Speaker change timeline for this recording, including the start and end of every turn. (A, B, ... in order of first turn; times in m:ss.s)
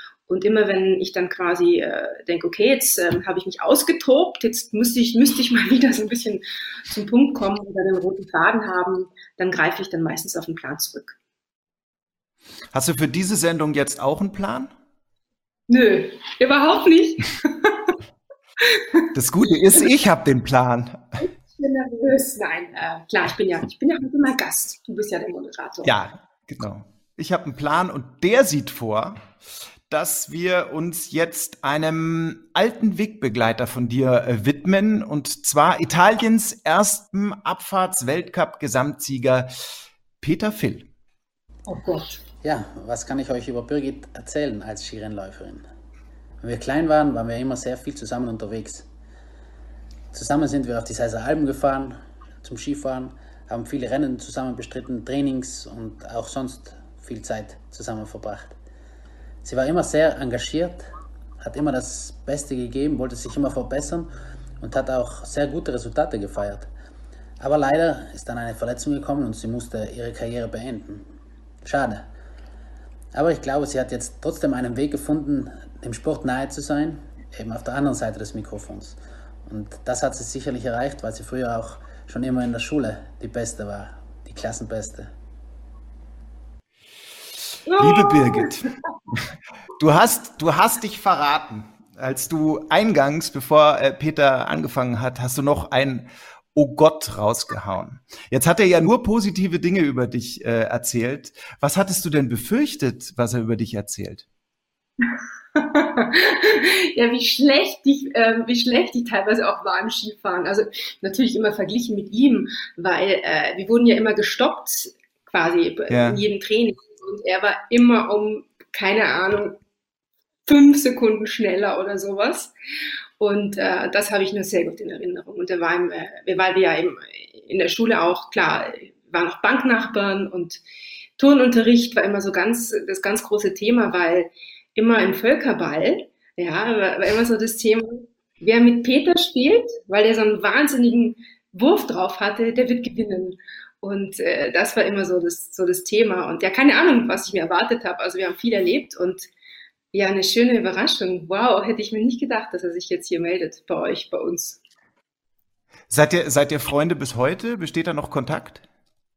0:00.3-0:11.2 A
0:12.7-0:14.7 B
0:15.7-0:17.9 A
0:18.6-0:19.0 A
0:19.1-0:21.2 B
0:21.5-0:25.9 A
0:25.8-0:29.3 B
0:29.9-0:39.5 B
0:40.2-0:40.9 B
0:41.7-0:42.2 A
0:42.4-0:45.7 C
0:46.4-0:48.9 C
0:50.1-0:58.6 C
0:59.4-1:00.9 C
1:01.4-1:06.7 C
1:07.4-1:11.1 C
1:11.6-1:12.1 C
1:13.1-1:25.1 C
1:27.7-1:28.5 A
1:27.8-1:28.7 B
1:29.8-1:44.2 B
1:45.6-1:59.6 A
1:55.9-1:56.2 B
2:00.5-2:02.5 A
2:03.2-2:10.6 A
2:11.2-2:29.3 A
2:29.9-2:34.6 A
2:35.9-2:38.7 B